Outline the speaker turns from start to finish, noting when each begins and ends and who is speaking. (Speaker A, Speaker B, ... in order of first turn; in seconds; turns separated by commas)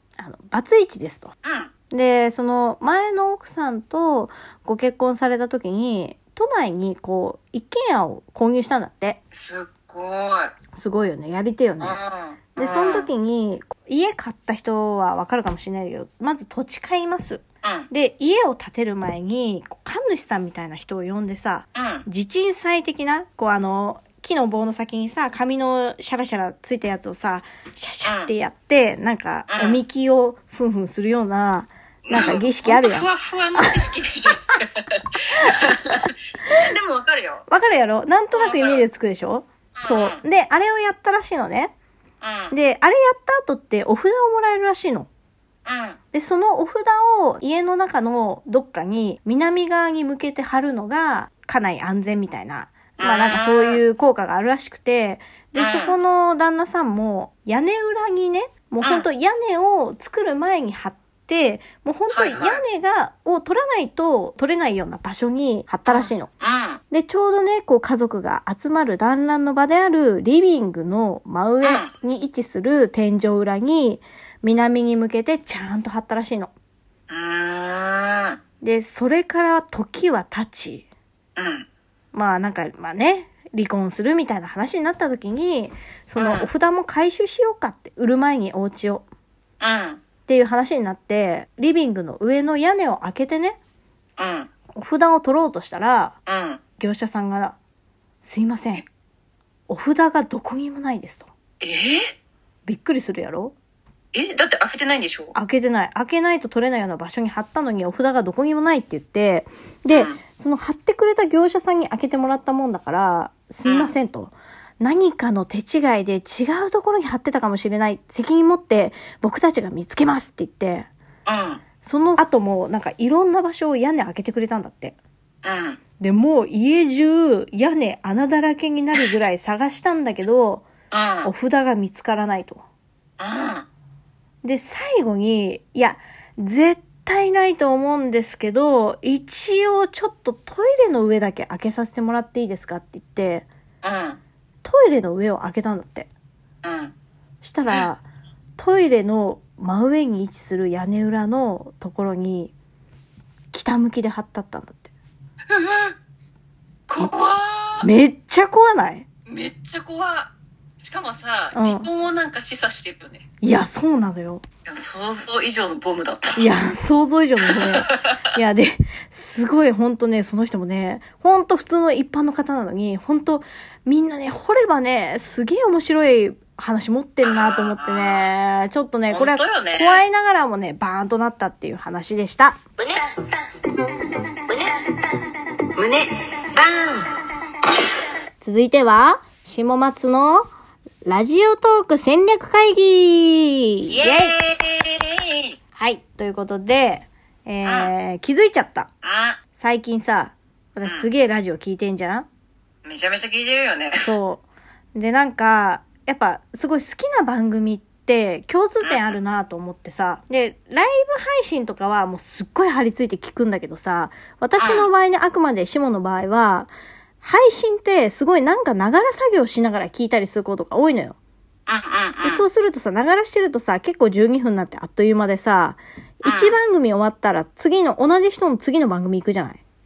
Speaker A: 0.2-1.3, Speaker B: 1.4-1.7, Speaker A: 1.9-9.2, Speaker B: 9.3-10.5, Speaker A: 10.7-12.0, Speaker B: 11.8-13.1, Speaker A: 12.6-33.9, Speaker B: 17.6-17.9, Speaker B: 21.8-22.1, Speaker B: 28.0-28.3, Speaker B: 29.5-29.8, Speaker B: 32.1-37.4, Speaker A: 35.4-35.9, Speaker A: 37.5-41.7, Speaker B: 38.4-38.8, Speaker B: 39.8-40.2, Speaker B: 42.2-42.5, Speaker A: 42.5-45.1, Speaker B: 45.7-46.0, Speaker A: 46.1-66.3, Speaker B: 53.0-53.8, Speaker B: 55.6-56.0, Speaker B: 58.8-59.1, Speaker B: 62.1-62.6, Speaker B: 65.9-66.8, Speaker A: 66.9-76.5, Speaker B: 71.6-71.9, Speaker B: 77.1-78.4, Speaker A: 78.6-80.8, Speaker B: 81.4-81.7, Speaker A: 82.1-89.0, Speaker B: 86.2-86.5, Speaker B: 89.6-90.0, Speaker A: 90.3-93.6, Speaker B: 94.2-94.5, Speaker A: 94.8-96.2, Speaker B: 96.3-96.6, Speaker A: 96.8-97.6, Speaker A: 98.2-98.8, Speaker A: 99.7-101.3, Speaker B: 101.6-102.1, Speaker A: 102.7-103.5, Speaker B: 104.1-105.3, Speaker A: 105.3-120.9, Speaker B: 109.9-110.2, Speaker B: 113.7-114.0, Speaker B: 121.3-121.6, Speaker A: 121.8-125.0, Speaker B: 125.4-125.8, Speaker A: 126.0-130.7, Speaker B: 130.9-131.3, Speaker A: 131.2-132.6, Speaker B: 133.2-133.7, Speaker A: 134.4-143.5, Speaker B: 143.8-144.2, Speaker A: 144.6-146.1, Speaker B: 146.6-146.9, Speaker A: 147.4-148.0, Speaker A: 148.6-152.5, Speaker A: 153.5-154.9, Speaker B: 155.5-156.0, Speaker B: 156.9-157.9, Speaker A: 157.8-159.1, Speaker B: 159.3-163.2, Speaker A: 161.5-161.9, Speaker A: 163.4-164.4, Speaker B: 164.7-166.5, Speaker A: 166.4-182.6, Speaker B: 167.4-168.2, Speaker B: 177.2-178.3, Speaker B: 179.1-180.0, Speaker C: 182.8-183.3, Speaker C: 184.5-185.1, Speaker C: 185.8-187.1, Speaker A: 188.4-190.5, Speaker A: 191.1-194.3, Speaker B: 193.9-195.6, Speaker A: 195.8-198.9, Speaker B: 197.6-197.9, Speaker B: 199.0-199.4, Speaker A: 199.6-202.3, Speaker B: 202.8-204.0, Speaker A: 204.0-204.4, Speaker A: 204.9-221.2, Speaker B: 208.8-209.1, Speaker B: 214.6-214.9, Speaker B: 221.7-222.4, Speaker A: 222.2-229.6, Speaker B: 226.2-226.6